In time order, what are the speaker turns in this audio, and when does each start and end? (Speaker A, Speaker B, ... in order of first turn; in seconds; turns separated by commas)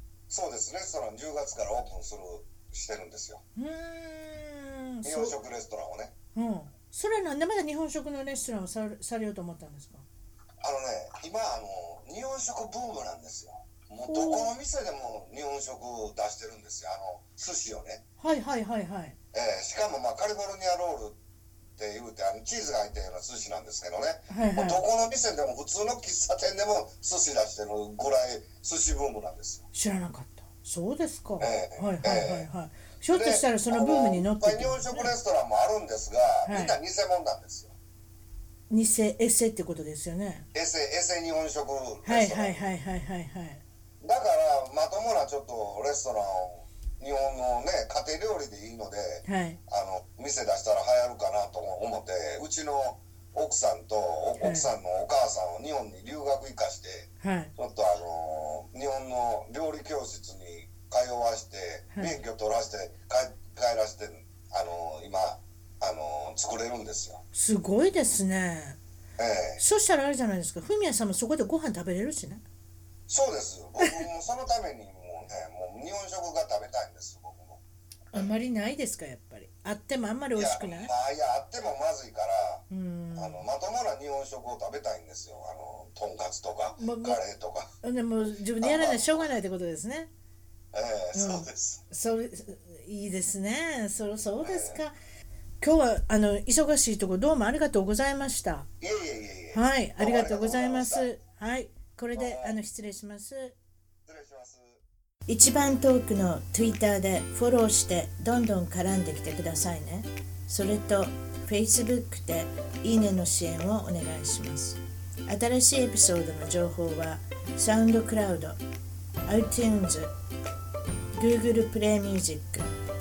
Speaker A: 0.3-3.4, Speaker B: 3.6-5.3, Speaker A: 5.0-6.1, Speaker B: 6.3-10.1, Speaker A: 10.6-18.0, Speaker B: 14.1-14.5, Speaker B: 18.2-19.1, Speaker A: 19.3-21.2, Speaker A: 21.8-29.6, Speaker B: 24.3-24.8, Speaker B: 29.7-35.1, Speaker A: 31.4-32.5, Speaker A: 33.1-37.7, Speaker B: 36.5-36.8, Speaker B: 38.7-40.5, Speaker A: 40.5-42.7, Speaker B: 42.0-43.6, Speaker A: 44.0-67.2, Speaker B: 49.2-49.6, Speaker B: 54.4-54.7, Speaker B: 57.2-57.5, Speaker B: 61.9-62.2, Speaker B: 67.3-68.8, Speaker A: 69.2-69.6, Speaker B: 69.6-72.4, Speaker A: 73.1-77.6, Speaker B: 78.1-80.9, Speaker A: 80.3-82.6, Speaker B: 82.7-83.5, Speaker A: 83.2-87.7, Speaker B: 86.8-87.2, Speaker B: 87.8-90.1, Speaker A: 88.6-89.3, Speaker A: 90.7-91.8, Speaker B: 91.1-95.0, Speaker A: 94.4-94.8, Speaker B: 95.6-98.7, Speaker A: 98.8-101.1, Speaker B: 99.5-103.5, Speaker A: 102.2-102.6, Speaker A: 104.1-104.8, Speaker B: 105.3-118.6, Speaker B: 119.3-120.1, Speaker B: 121.2-122.7